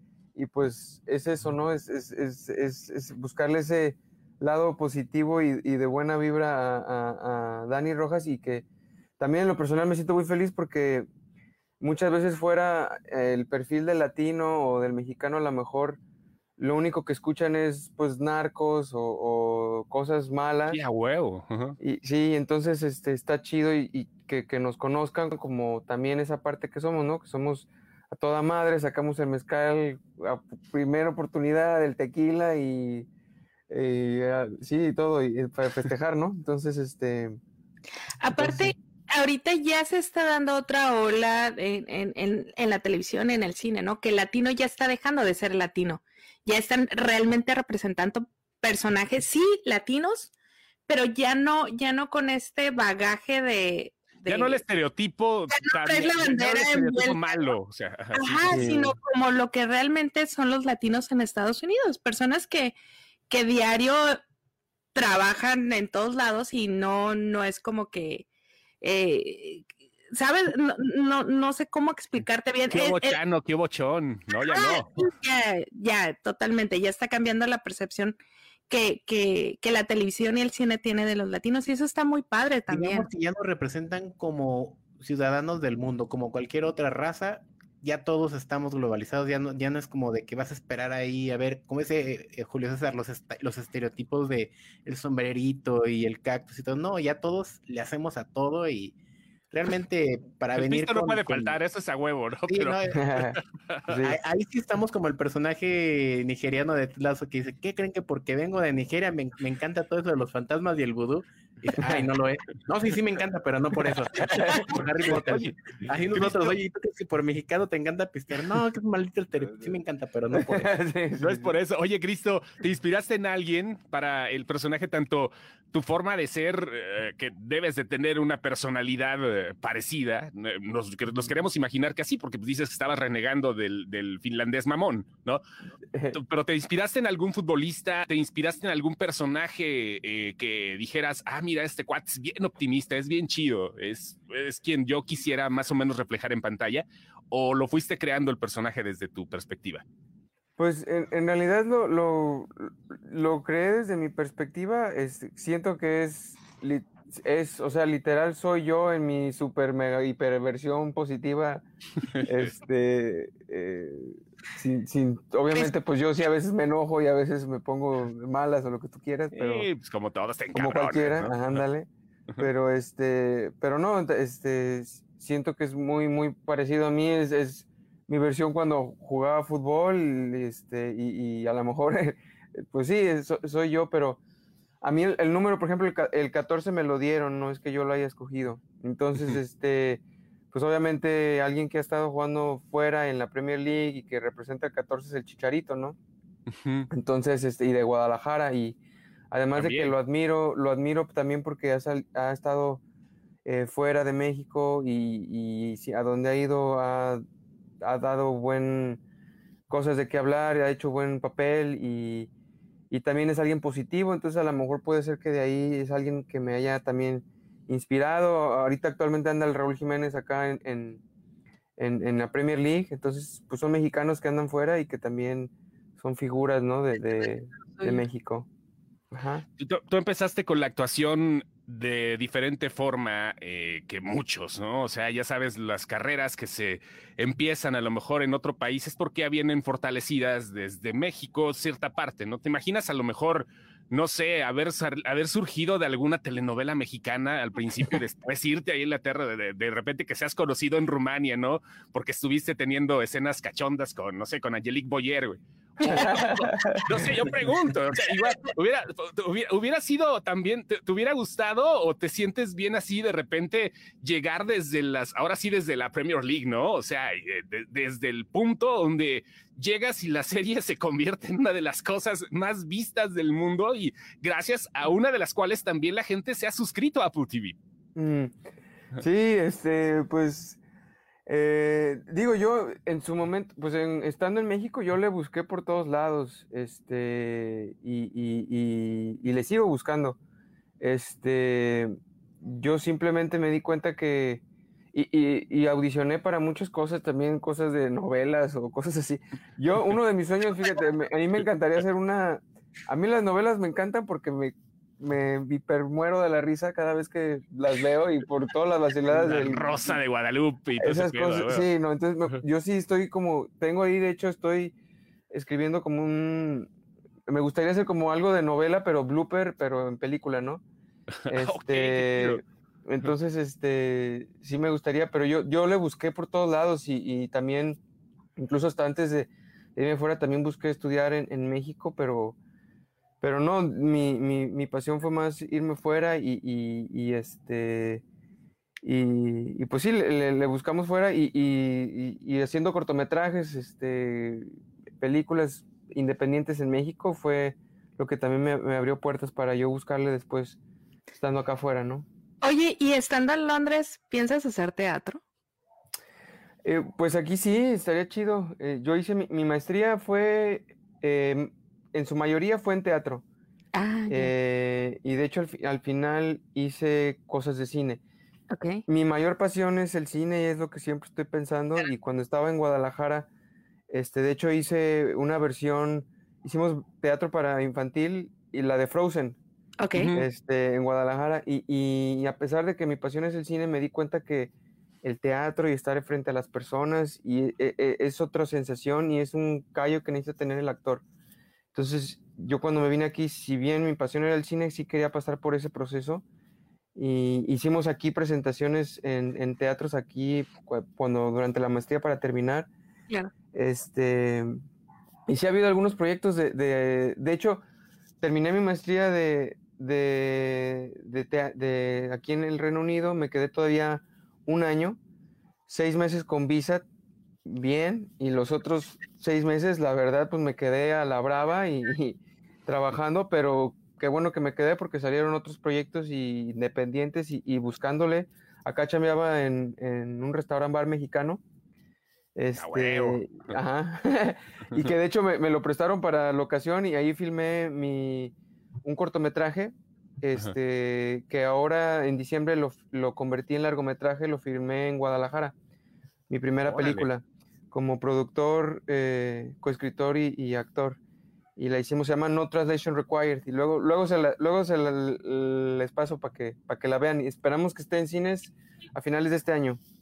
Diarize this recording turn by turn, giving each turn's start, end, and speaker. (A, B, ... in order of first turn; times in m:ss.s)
0:00.4-0:08.6 A
0:09.2-0:11.1 A
0:11.8-0:16.0 A
0:16.6-0:20.8 A
0:20.7-0:21.8 B
0:21.8-0:33.1 A
0:33.7-0:37.4 A
0:38.2-0:50.3 C
0:38.4-0:38.7 A
0:50.9-0:54.6 C
0:54.3-0:58.7 B
0:55.5-0:57.5 C
0:58.1-1:02.8 C
0:58.5-0:59.0 A
1:03.3-1:04.2 C
1:05.0-1:08.3 C
1:08.8-1:13.2 C
1:12.7-1:15.1 B
1:14.4-1:18.2 C
1:18.7-1:23.1 C
1:22.7-1:39.0 D
1:39.5-1:41.6 D
1:40.6-1:44.0 B
1:42.5-1:43.0 D
1:42.9-1:44.2 A
1:44.0-2:00.7 D
1:51.8-1:52.1 A
1:54.2-1:56.6 B
1:54.3-1:54.6 A
2:00.3-2:01.5 A
2:01.2-2:15.4 B
2:15.9-2:16.2 A
2:16.1-2:29.8 B
2:30.6-2:49.7 A
2:42.1-2:42.5 B
2:49.3-2:51.6 B
2:50.6-3:04.2 A
3:04.8-3:16.0 A
3:16.5-3:16.9 B
3:16.9-3:18.8 A
3:19.3-3:22.8 A
3:19.5-3:19.9 B
3:23.4-3:27.2 A
3:27.8-3:29.0 A
3:29.7-3:32.3 A
3:32.9-3:41.0 A
3:41.8-3:48.5 A
3:47.1-3:48.0 C
3:49.1-3:49.4 A
3:49.6-4:37.6 B
4:15.8-4:16.8 C
4:15.8-4:17.0 A
4:38.0-4:38.3 A
4:39.0-4:40.6 A
4:41.3-4:50.2 A
4:50.8-4:54.4 A
4:54.9-5:10.0 A
5:09.1-5:11.7 B
5:10.8-5:14.8 A
5:15.3-5:16.7 A
5:17.3-5:20.6 A
5:21.2-5:22.4 B
5:21.3-5:27.8 A
5:28.4-5:32.4 A
5:33.2-5:38.0 A
5:38.8-5:50.6 A
5:51.2-5:52.1 A
5:52.4-5:55.2 C
5:56.6-6:03.2 A
6:03.8-6:04.3 C
6:04.1-6:08.0 A
6:08.5-6:08.8 C
6:08.9-6:13.3 A
6:13.9-6:19.4 A
6:19.8-6:20.1 C
6:20.0-6:20.3 B
6:20.1-6:24.5 A
6:25.0-6:31.0 A
6:31.7-6:36.2 A
6:37.0-6:42.7 A
6:43.5-6:44.5 A
6:45.3-6:47.6 A
6:48.2-6:55.0 A
6:55.7-6:56.8 A
6:57.4-7:11.4 A
7:12.4-7:25.6 A
7:12.6-7:13.5 B
7:26.3-7:31.0 A
7:26.7-7:27.1 B
7:31.6-7:39.8 A